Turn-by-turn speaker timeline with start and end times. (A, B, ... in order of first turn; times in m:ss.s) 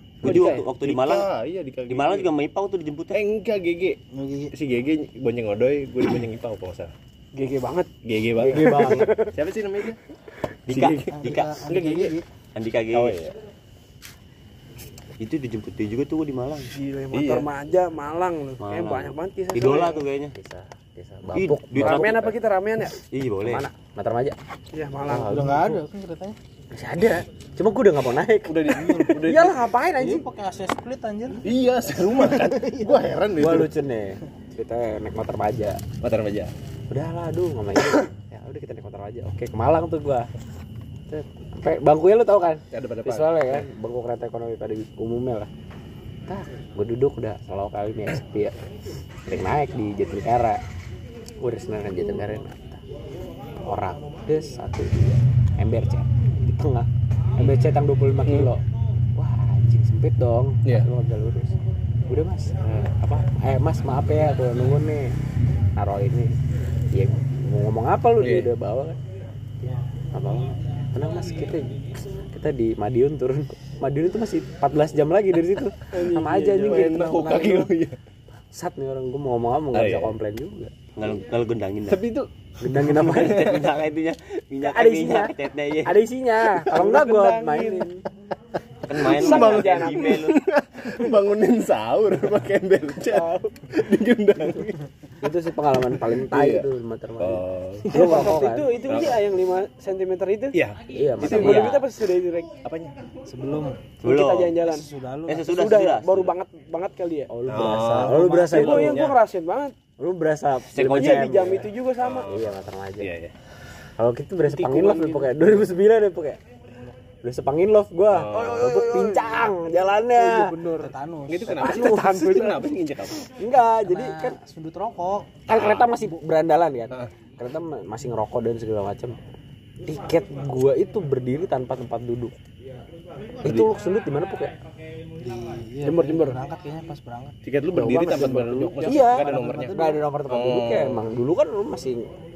0:00.2-0:00.6 A
0:00.2-0:01.3 B
0:00.3-0:02.3 C
0:01.9-0:03.2 B
0:03.1-0:04.0 C
0:04.1-0:04.5 D
0:04.5-0:06.9 C
0:07.3-0:07.9 A
0:08.0-0:10.0 C
0:08.4-0:09.1 E
0:08.5-0:09.3 A
0:10.7-0:11.8 B
0:10.7-0:11.2 C
0:11.1-0:12.2 D
0:11.7-0:12.2 C
0:12.6-0:13.2 B
0:12.9-0:13.3 C
0:15.2-0:16.7 B
0:16.7-0:20.0 A
0:17.1-0:17.5 C
0:18.6-0:20.4 B
0:20.3-0:22.3 E
0:21.3-0:23.7 B
0:21.8-0:23.0 A
0:23.4-0:24.4 E
0:24.7-0:25.5 A
0:25.1-0:25.8 E
0:25.2-0:26.4 D
0:26.7-0:30.3 E
0:28.5-0:29.6 C
0:29.3-0:29.9 A
0:30.0-0:31.4 D
0:31.4-0:33.7 C
0:32.0-0:33.1 D
0:33.4-0:35.8 E
0:36.0-0:36.5 C
0:36.9-0:40.3 E
0:41.1-0:45.5 E
0:42.7-0:43.7 C
0:46.3-0:48.6 E
0:49.3-0:50.6 E
0:51.4-0:52.8 E
0:53.6-0:58.6 E
0:59.2-1:01.6 E
1:02.1-1:05.2 E
1:05.8-1:06.4 E
1:06.9-1:09.0 E
1:08.2-1:08.5 C
1:09.6-1:17.7 E
1:16.0-1:17.0 A
1:16.1-1:18.0 C
1:18.5-1:20.7 E
1:19.7-1:20.1 C
1:21.0-1:22.1 B
1:21.9-1:23.6 C
1:22.6-1:23.7 E
1:23.0-1:26.0 B
1:24.6-1:28.0 E
1:26.7-1:27.9 A
1:28.9-1:30.4 B
1:28.9-1:34.8 C
1:29.0-1:30.2 A
1:33.1-1:33.5 A
1:35.2-1:38.8 E
1:36.0-1:36.7 C
1:37.2-1:38.0 C
1:37.9-1:40.6 A
1:38.9-1:39.2 C
1:40.5-1:41.5 C
1:40.9-1:41.8 E
1:41.2-1:42.5 A
1:41.2-1:41.9 B
1:42.6-1:43.0 C
1:43.3-1:43.9 D
1:44.0-1:44.9 A
1:44.0-1:44.6 B
1:44.6-1:45.5 D
1:45.3-1:46.4 B
1:45.4-1:47.3 A
1:47.3-1:49.0 E
1:47.5-1:49.2 C
1:48.4-1:49.8 A
1:50.0-1:51.7 E
1:50.7-1:51.6 B
1:50.8-1:52.3 A
1:52.0-1:53.4 C
1:52.3-1:53.1 E
1:54.0-1:56.4 E
1:54.5-1:55.4 A
1:57.2-2:00.5 E
1:58.1-1:58.7 C
1:58.3-2:00.9 A
2:00.8-2:01.8 D
2:01.3-2:03.2 C
2:01.6-2:02.6 E
2:01.6-2:02.7 A
2:03.2-2:04.4 E
2:03.9-2:05.3 D
2:05.5-2:09.2 E
2:05.5-2:05.9 C
2:09.9-2:12.4 E
2:13.4-2:14.5 E
2:15.2-2:17.4 D
2:15.8-2:16.4 A
2:17.4-2:21.0 C
2:17.7-2:19.0 E
2:18.2-2:19.4 A
2:19.0-2:20.0 D
2:19.7-2:22.0 E